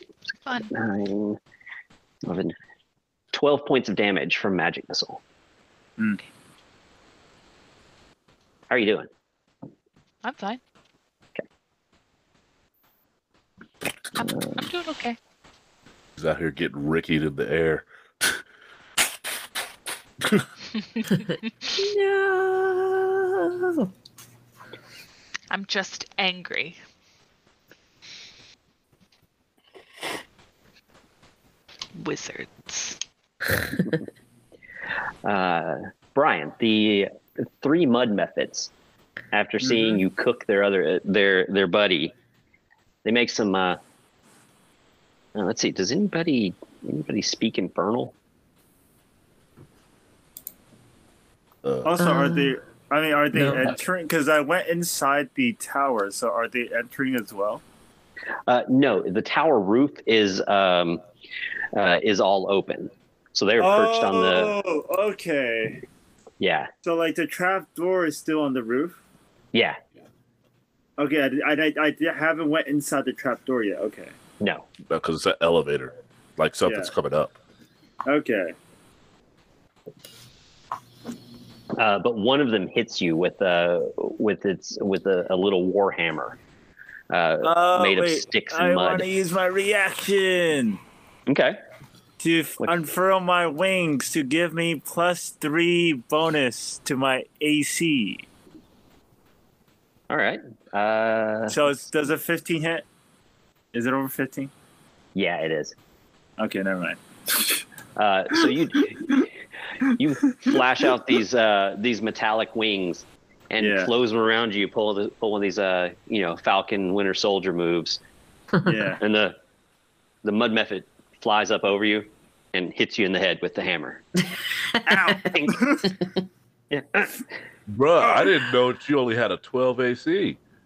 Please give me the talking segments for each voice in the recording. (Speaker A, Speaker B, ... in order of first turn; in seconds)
Speaker A: 0.5-1.4, 2.2-2.5, 3.3-5.2, 8.7-9.1, 14.2-14.6, 35.2-38.7, 39.3-42.1, 43.0-43.8, 45.3-48.1, 58.5-61.0, 61.7-64.5, 66.4-66.7, 69.5-69.8, 74.4-74.7, 81.7-86.4, 87.1-89.1, 91.3-91.6, 100.1-101.6, 105.1-105.7, 108.0-109.3, 109.9-118.0, 119.0-119.4, 120.2-124.0, 125.3-125.6, 126.7-127.2
Speaker B: 10.2-10.6, 14.2-15.2, 25.5-26.8, 31.9-33.0
Speaker C: 16.1-18.4, 51.6-52.0, 74.9-77.3, 127.7-130.4
Speaker D: 21.8-23.9, 52.0-52.6, 53.3-53.7, 124.8-125.1
Speaker E: 39.6-40.0, 51.8-57.6, 63.6-65.8, 66.8-69.0, 71.0-74.1, 76.6-76.9, 78.1-78.5, 87.4-90.8, 92.2-98.2, 101.5-102.8, 103.7-104.5, 106.4-107.6, 110.2-110.5, 113.6-113.9, 118.6-119.0, 124.8-125.9, 128.0-128.3